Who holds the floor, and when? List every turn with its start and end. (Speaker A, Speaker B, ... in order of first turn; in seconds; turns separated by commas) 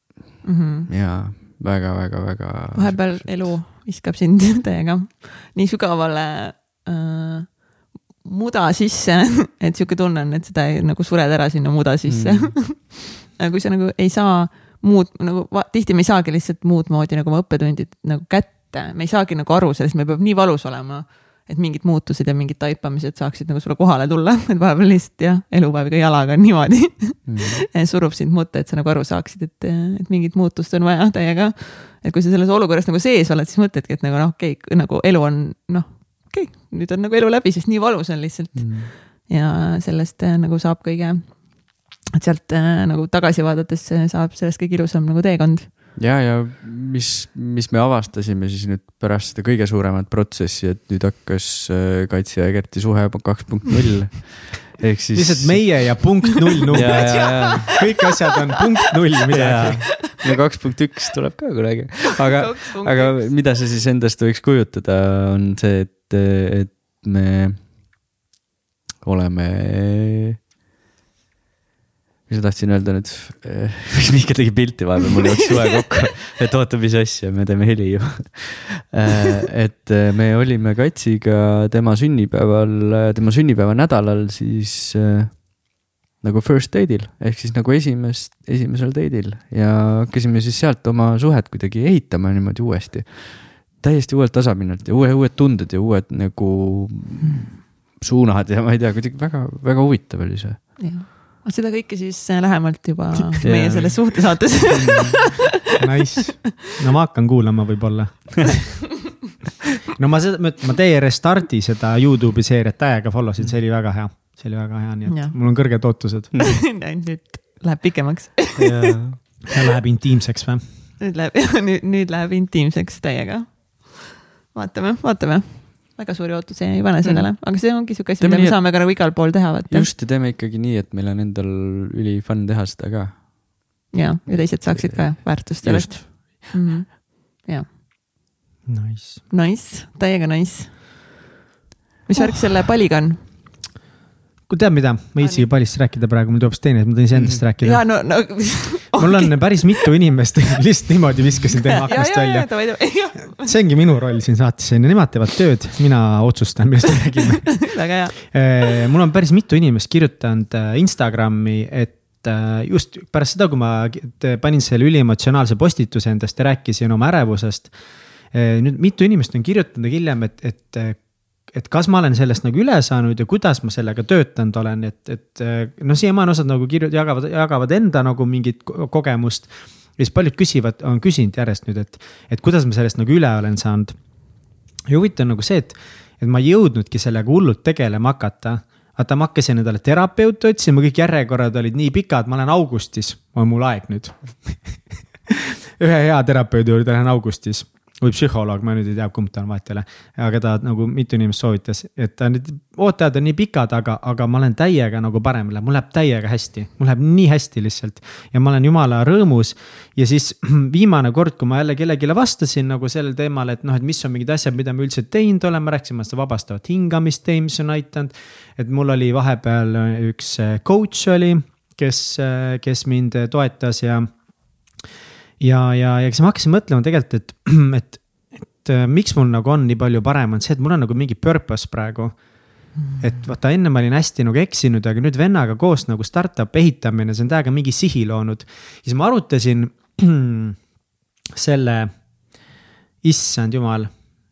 Speaker A: 0.4-0.9, Speaker B: 0.9-3.6, Speaker A: 2.7-45.7, Speaker B: 12.1-12.6, Speaker B: 27.3-27.6, Speaker B: 38.5-38.9, Speaker B: 46.0-56.0, Speaker C: 55.1-60.0, Speaker B: 56.7-57.8, Speaker A: 56.7-57.8, Speaker B: 59.3-67.7, Speaker A: 62.2-63.4, Speaker B: 69.0-70.4, Speaker B: 72.3-100.9, Speaker A: 100.8-105.4, Speaker B: 103.4-105.5, Speaker C: 105.7-108.8, Speaker C: 109.9-116.3, Speaker A: 115.1-115.4, Speaker B: 116.3-116.6, Speaker A: 116.4-119.2, Speaker B: 118.5-119.2, Speaker C: 119.5-120.6, Speaker A: 121.0-129.9, Speaker B: 128.2-128.9, Speaker B: 129.7-133.3, Speaker A: 133.9-137.7, Speaker B: 134.4-136.5, Speaker C: 138.7-139.2, Speaker A: 139.3-140.8, Speaker A: 142.1-143.2, Speaker C: 144.5-147.9, Speaker A: 145.2-145.5, Speaker A: 147.6-149.9, Speaker C: 148.9-152.5, Speaker A: 151.9-153.5, Speaker C: 153.2-157.7, Speaker A: 157.2-158.2, Speaker C: 158.2-167.7, Speaker C: 168.3-183.9, Speaker C: 184.9-194.6, Speaker C: 195.3-224.1, Speaker C: 225.4-232.2, Speaker C: 233.0-240.6, Speaker C: 241.3-242.0, Speaker C: 243.0-243.9